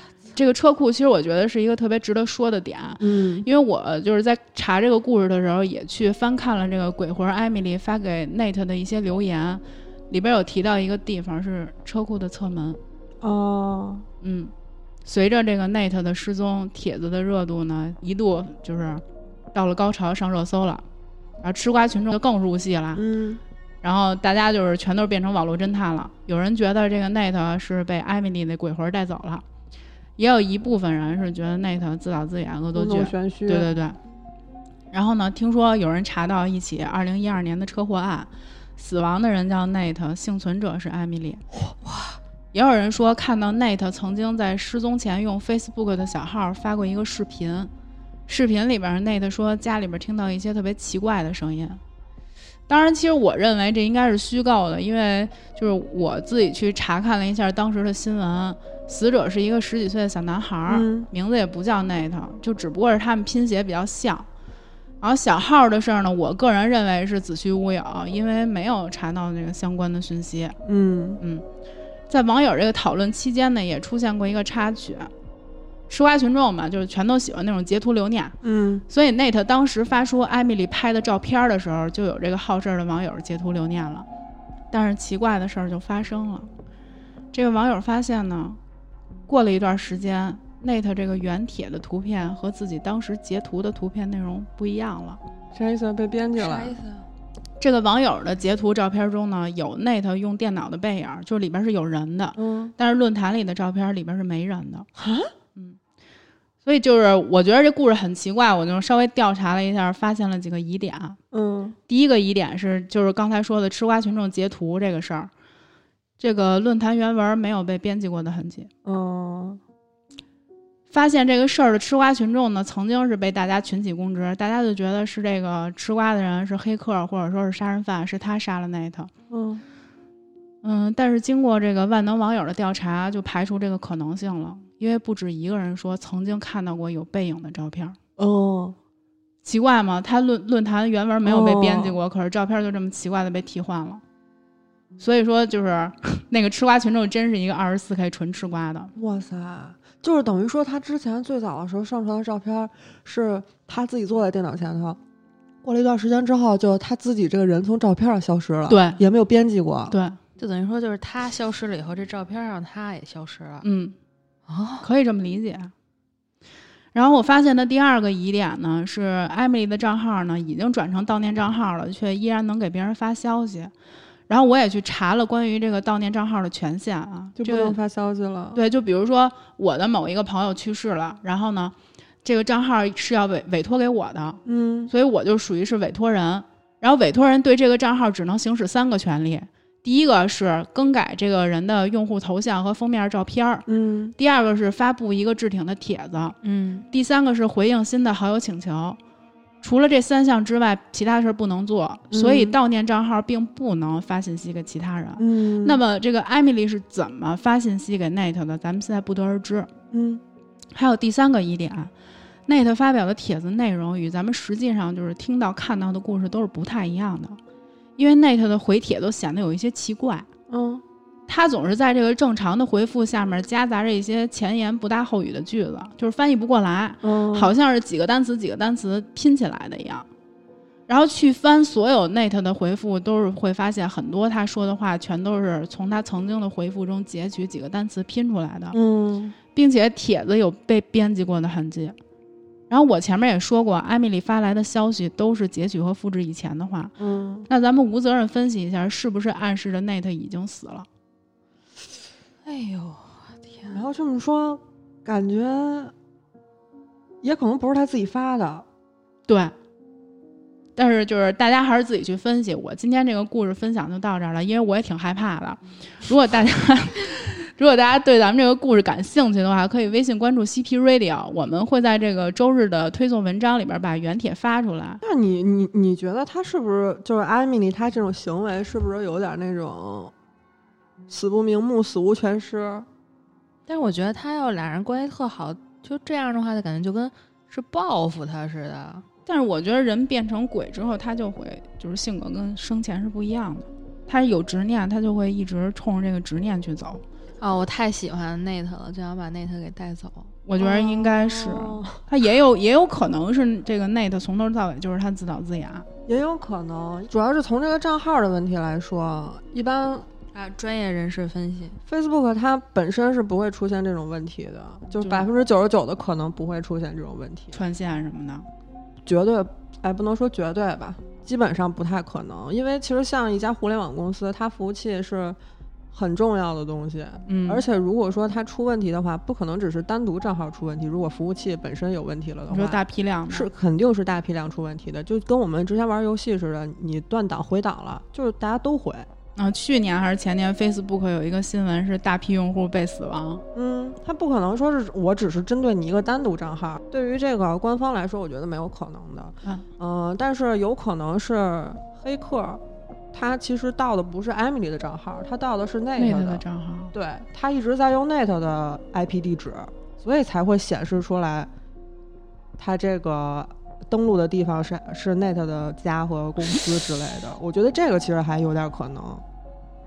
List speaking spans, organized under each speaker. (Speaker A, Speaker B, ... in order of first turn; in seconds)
Speaker A: 0.3-12.8, 14.2-14.5, 15.1-19.0, 19.5-20.8, 21.4-23.0, 23.8-29.4, 30.2-34.0, 34.9-41.4, 42.5-47.7, 48.3-51.8, 52.7-64.3, 65.0-70.6, 72.1-75.1, 75.9-78.4, 78.9-84.1, 84.7-86.5, 87.3-88.6, 89.3-95.2, 97.6-104.9, 106.7-111.2, 111.9-115.3, 116.2-118.7, 120.9-129.1, 130.6-138.0, 139.4-144.0, 145.0-148.9, 158.7-159.0, 159.9-160.2, 163.6-164.0, 164.8-165.7, 166.9-173.7, 174.3-177.8, 178.5-193.7, 194.2-196.4, 196.9-199.0, 199.6-209.7, 210.7-211.9, 212.5-217.4, 218.0-220.3, 221.3-230.1, 230.9-238.8, 239.5-242.0, 242.7-246.9, 247.5-250.9, 259.3-259.5, 260.8-275.0, 289.3-297.0, 300.5-305.9, 315.0-315.3, 317.5-318.5, 327.3-327.6, 332.5-333.5, 339.4-343.4, 356.0-356.9
Speaker B: 3.0-3.5, 13.2-14.1, 22.9-23.4, 32.7-33.7, 60.7-61.1, 70.7-71.2, 78.4-78.8, 95.5-96.8, 102.4-102.7, 105.0-105.3, 111.3-111.8, 118.8-119.6, 129.3-129.6, 138.2-138.8, 141.2-142.0, 149.0-155.0, 155.6-159.9, 177.4-178.6, 184.4-184.9, 193.7-194.2, 202.1-202.6, 205.2-205.8, 209.9-210.2, 220.5-220.8, 227.0-227.5, 238.7-239.4, 247.0-247.5, 253.7-255.9, 257.2-258.7, 275.0-280.1, 281.1-282.9, 300.6-302.0, 306.1-310.1, 311.9-317.6, 319.1-325.4, 325.9-339.1, 343.5-361.5, 362.6-369.2
Speaker C: 41.9-42.1, 96.4-97.1, 160.4-163.7, 164.5-164.9, 196.4-196.9, 252.4-253.8, 283.7-289.1, 297.4-300.3, 310.3-311.8